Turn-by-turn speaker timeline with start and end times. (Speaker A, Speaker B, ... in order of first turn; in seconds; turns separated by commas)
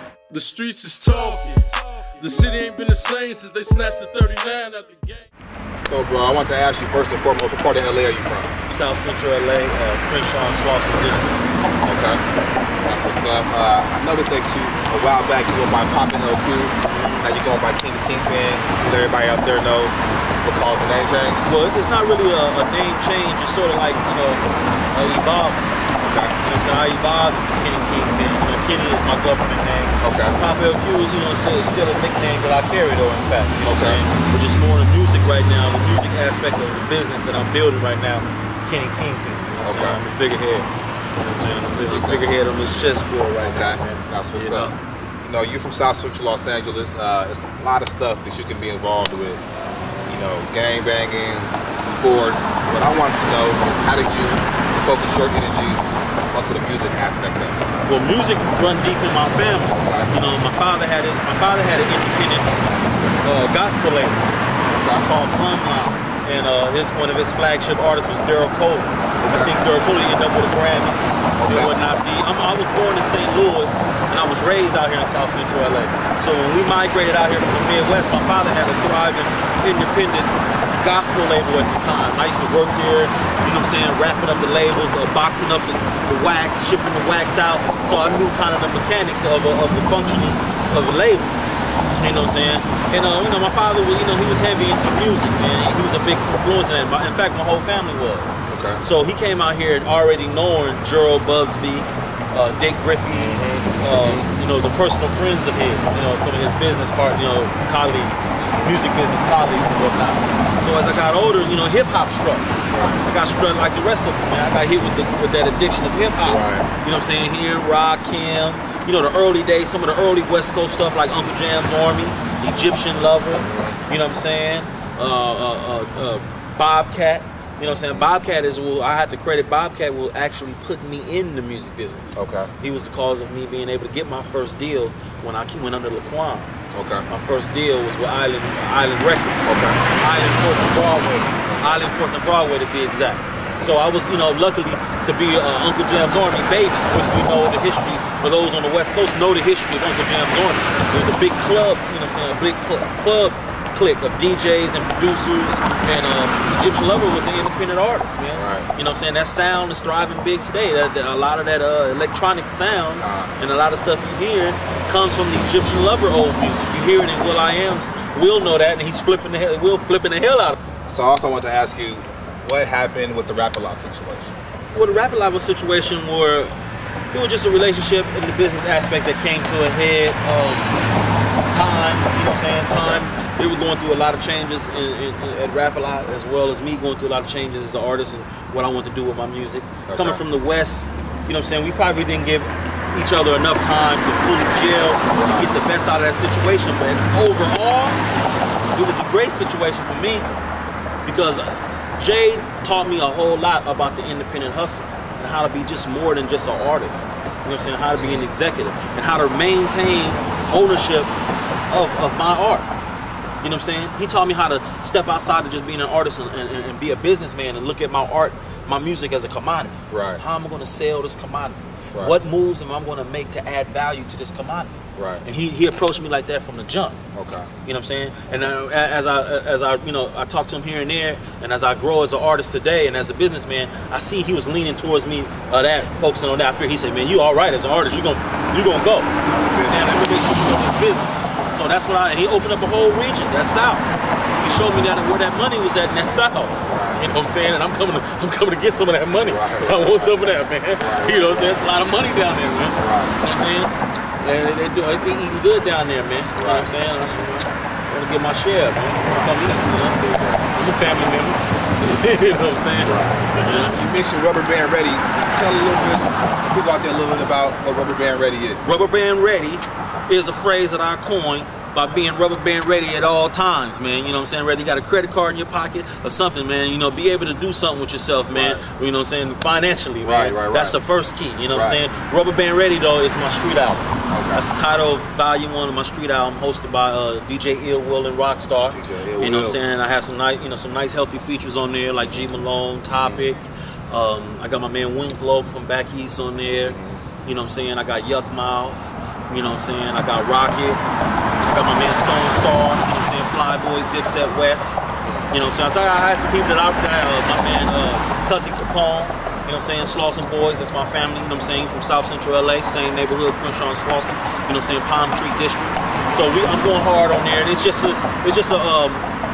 Speaker A: 0.3-5.2, Speaker B: 5.8-8.5, Speaker C: 8.7-11.4, Speaker B: 11.8-12.2, Speaker B: 12.8-21.4, Speaker C: 16.9-17.3, Speaker C: 21.4-25.6, Speaker B: 26.0-26.4, Speaker C: 26.4-44.8, Speaker B: 30.0-30.4, Speaker B: 33.6-34.0, Speaker B: 39.6-40.0, Speaker B: 41.9-42.4, Speaker B: 43.4-49.4, Speaker B: 50.1-57.6, Speaker C: 57.9-62.6, Speaker B: 59.7-60.1, Speaker C: 63.2-64.2, Speaker B: 64.8-65.1, Speaker C: 64.9-91.3, Speaker B: 69.2-69.5, Speaker B: 71.4-71.7, Speaker B: 87.9-88.2, Speaker C: 91.9-112.5, Speaker B: 98.5-98.8, Speaker B: 103.1-104.3, Speaker B: 108.4-108.7, Speaker B: 112.7-113.0, Speaker C: 113.0-136.5, Speaker B: 116.2-116.7, Speaker B: 123.4-123.8, Speaker B: 127.6-128.1, Speaker B: 132.2-132.5, Speaker B: 136.7-137.1, Speaker C: 137.1-170.6, Speaker B: 139.4-139.8, Speaker B: 158.3-158.7, Speaker B: 163.0-163.3, Speaker B: 170.9-174.4, Speaker C: 174.7-176.5, Speaker C: 177.1-180.8, Speaker C: 181.5-198.0, Speaker B: 182.2-183.0, Speaker B: 189.9-190.2, Speaker B: 195.1-195.5, Speaker C: 198.7-200.3, Speaker C: 201.0-211.1, Speaker B: 207.9-208.3, Speaker C: 211.7-212.7, Speaker C: 213.4-227.0, Speaker B: 219.9-220.2, Speaker B: 225.0-225.2, Speaker B: 227.1-227.5, Speaker C: 227.6-239.1, Speaker B: 239.2-240.3, Speaker C: 239.6-263.8, Speaker B: 241.4-241.6, Speaker B: 246.7-247.1, Speaker B: 249.2-251.7, Speaker B: 252.8-253.2, Speaker B: 256.3-256.7, Speaker B: 260.0-260.4, Speaker B: 262.8-268.6, Speaker C: 268.6-300.8, Speaker B: 278.3-278.6, Speaker B: 280.0-280.8, Speaker B: 281.5-281.8, Speaker B: 284.1-284.5, Speaker B: 288.7-289.6, Speaker B: 293.0-293.2, Speaker B: 296.6-297.1, Speaker C: 301.4-319.1, Speaker B: 305.0-305.3, Speaker B: 316.0-316.2